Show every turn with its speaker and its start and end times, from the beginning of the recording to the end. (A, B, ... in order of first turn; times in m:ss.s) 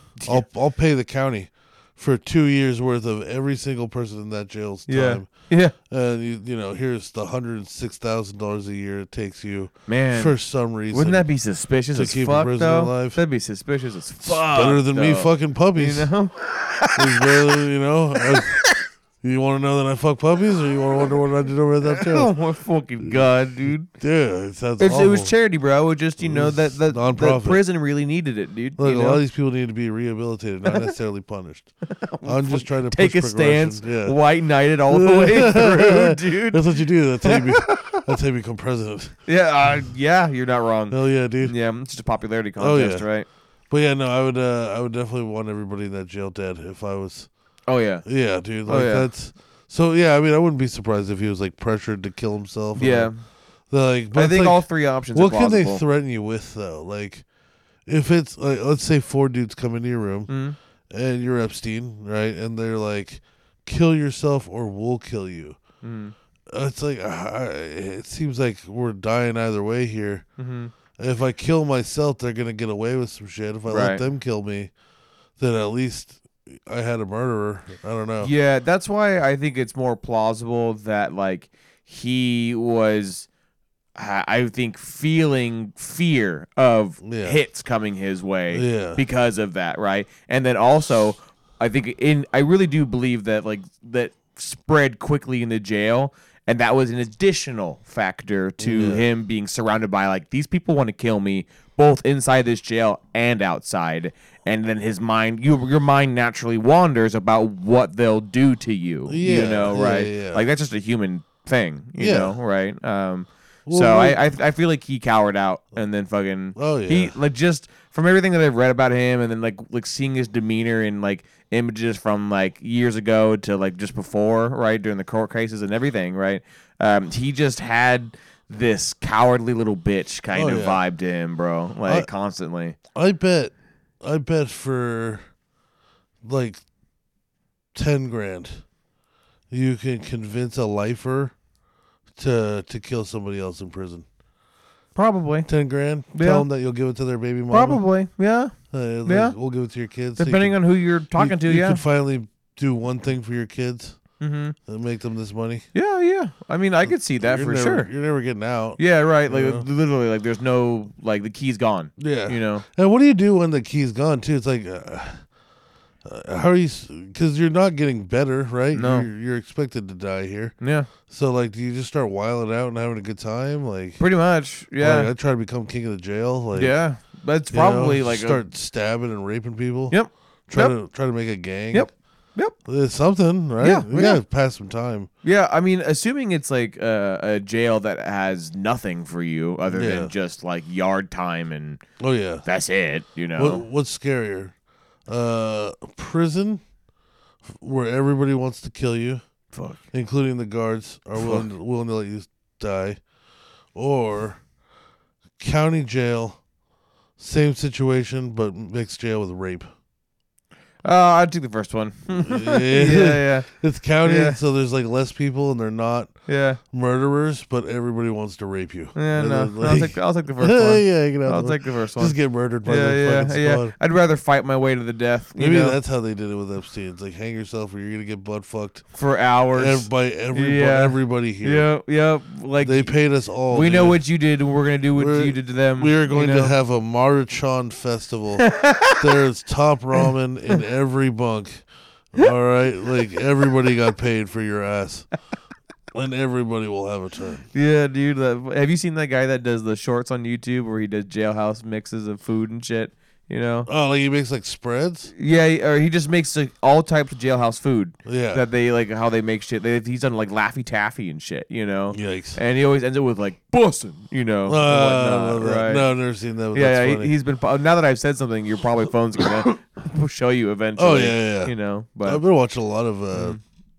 0:00.2-0:00.4 A
0:00.2-0:11.2 B
0:04.9-0:05.7 A
0:09.9-0:10.3 A
0:10.9-0:17.6 A
0:11.9-0:13.2 B
0:14.2-0:16.1 B
0:17.0-0:18.6 B
0:18.2-0:18.8 A
0:19.2-0:22.3 B
0:21.8-0:23.9 A
0:23.9-0:25.3 B
0:24.8-0:29.2 A
0:26.2-0:27.6 B
0:28.8-0:31.7 B
0:30.6-0:30.9 A
0:31.9-0:36.6 A
0:32.2-0:34.2 B
0:34.9-0:39.1 B
0:37.2-0:38.1 A
0:39.3-0:43.3 A
0:40.9-0:41.5 B
0:42.6-0:43.0 B
0:43.7-0:47.3 B
0:47.7-0:48.0 A
0:48.0-0:53.1 B
0:48.6-0:49.1 A
0:52.8-0:53.2 A
0:53.7-0:57.2 B
0:54.1-0:55.8 A
0:57.8-1:00.3 B
1:00.3-1:00.6 A
1:00.9-1:05.6 B
1:05.8-1:06.1 A
1:06.5-1:10.2 B
1:10.4-1:10.7 A
1:11.0-1:14.7 B
1:13.7-1:14.0 A
1:15.4-1:18.3 B
1:18.2-1:23.3 A
1:23.9-2:12.8 A
1:27.0-1:27.4 B
1:28.5-1:29.0 B
1:38.6-1:39.0 B
1:49.1-1:50.4 B
1:52.0-1:52.4 B
1:53.7-1:54.3 B
1:56.6-1:57.1 B
2:10.3-2:10.8 B
2:12.9-2:15.2 B
2:16.2-2:16.6 B
2:17.7-2:18.6 B
2:19.5-2:21.3 B
2:22.2-2:24.0 B
2:25.0-2:25.5 A
2:25.5-2:27.8 B
2:26.1-2:26.5 A
2:27.5-2:29.4 A
2:28.7-2:30.6 B
2:30.2-2:31.8 A
2:31.2-2:34.0 B
2:34.2-2:34.5 A
2:34.7-2:35.7 B
2:35.7-2:37.9 A
2:36.8-2:39.6 B
2:38.8-2:42.6 A
2:42.0-2:45.2 B
2:46.0-2:50.6 B
2:48.7-2:49.1 A
2:50.6-2:50.9 A
2:51.1-2:54.0 B
2:54.0-2:55.1 A
2:54.8-2:56.8 B
2:56.5-2:58.4 A
2:57.5-3:00.0 B
2:59.9-3:00.7 A
3:00.5-3:01.9 B
3:01.7-3:02.5 A
3:02.6-3:05.1 B
3:03.6-3:04.2 A
3:05.2-3:11.8 A
3:09.7-3:10.1 B
3:12.0-3:12.4 B
3:12.4-3:13.6 A
3:13.4-3:14.5 B
3:15.1-3:16.6 B
3:17.5-3:19.2 B
3:19.5-3:19.8 A
3:19.9-3:23.0 B
3:21.2-3:21.4 A
3:23.7-3:24.4 B
3:25.4-3:26.4 B
3:27.2-3:29.7 B
3:30.8-3:33.5 A
3:32.2-3:36.1 B
3:34.0-3:34.4 A
3:36.3-3:36.6 A
3:36.7-3:43.7 B
3:38.9-3:45.8 A
3:45.4-3:48.8 B
3:48.9-3:52.9 A
3:49.5-3:51.7 B
3:52.6-3:54.0 B
3:53.5-3:56.5 A
3:55.0-4:05.1 B
3:58.4-3:59.1 A
4:05.9-4:07.4 B
4:07.5-4:13.7 A
4:13.7-4:15.1 B
4:15.1-4:25.9 A
4:18.0-4:18.4 B
4:21.9-4:22.4 B
4:24.4-4:27.1 B
4:26.5-4:32.2 A
4:30.8-4:33.4 B
4:33.1-4:33.4 A